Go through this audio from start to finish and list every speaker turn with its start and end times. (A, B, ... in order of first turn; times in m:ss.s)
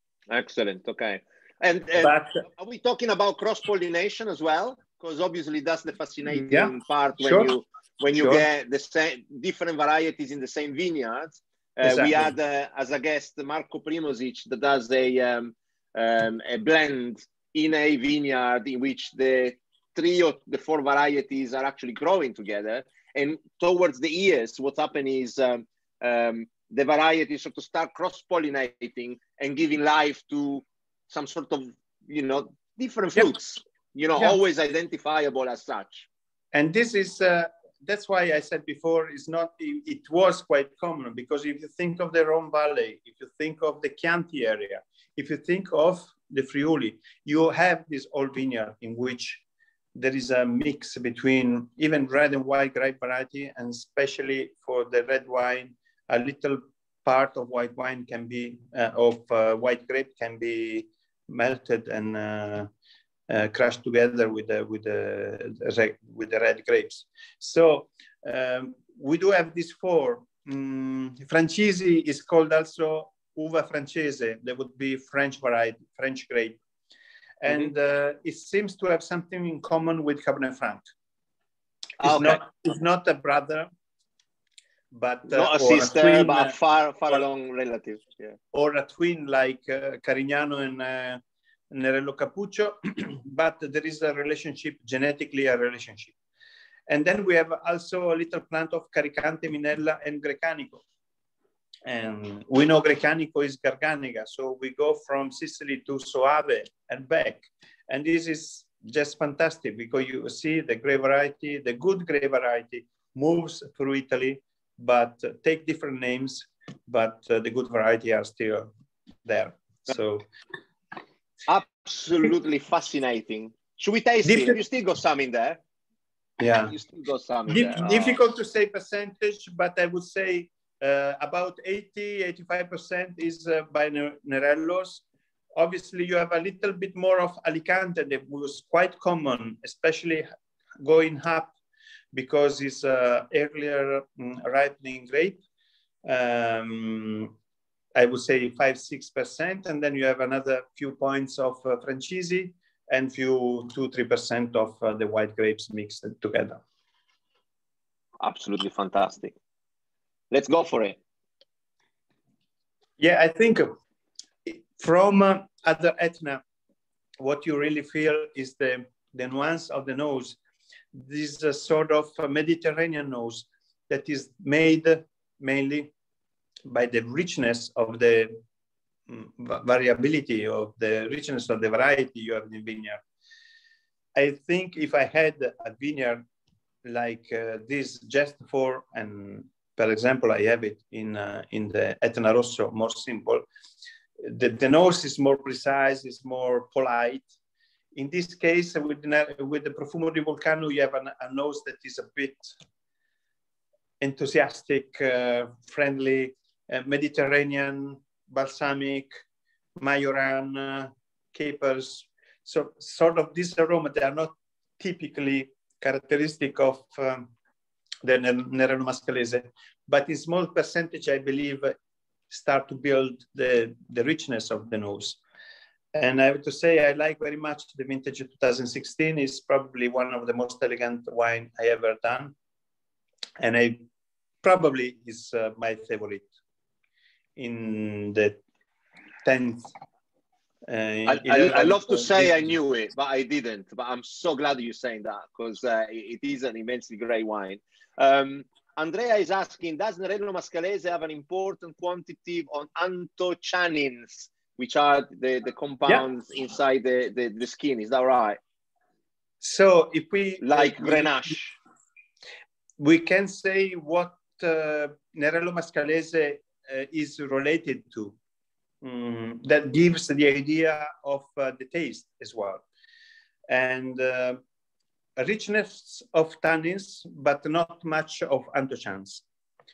0:00.3-0:36.1 A
0:02.0-0:02.4 B
0:06.5-0:07.5 B
0:08.2-0:08.4 B
0:11.8-0:12.3 B
0:36.5-0:49.4 B
0:50.0-1:02.7 B
1:03.3-1:16.6 B
1:17.4-1:20.9 B
1:22.0-1:22.4 A
1:22.0-1:23.7 B
1:24.9-1:26.6 B
1:25.3-1:28.4 A
1:28.5-1:31.2 B
1:31.7-1:36.1 B
1:36.9-1:40.8 B
1:41.8-1:58.7 B
1:59.2-2:00.3 B
2:01.5-2:05.6 A
2:04.3-2:04.6 B
2:06.4-2:06.7 B
2:06.6-2:08.2 A
2:07.5-2:15.0 B
2:15.6-2:20.3 B
2:20.8-2:21.5 B
2:22.1-2:25.4 B
2:26.0-2:27.3 B
2:28.0-2:36.6 B
2:38.2-2:39.3 A
2:40.3-2:41.0 A
2:43.0-2:43.8 B
2:44.5-2:46.4 B
2:47.2-2:50.4 B
2:50.9-2:55.9 B
2:56.7-2:58.4 B
2:59.1-3:03.0 B
3:04.2-3:06.2 B
3:06.8-3:13.5 B
3:14.2-3:17.3 B
3:18.0-3:22.5 B
3:24.0-3:29.1 B
3:29.8-3:37.3 B
3:38.0-3:41.8 B
3:42.3-3:45.2 B
3:45.9-3:52.4 B
3:53.4-3:53.9 B
3:54.4-3:56.3 B
3:57.4-3:58.4 B
3:59.2-3:59.7 B
4:00.7-4:02.6 B
4:01.1-4:18.4 A
4:19.4-4:21.4 B
4:20.4-4:21.6 A
4:22.8-4:28.2 B
4:28.8-4:32.6 B
4:33.5-4:34.4 B
4:35.2-4:39.2 B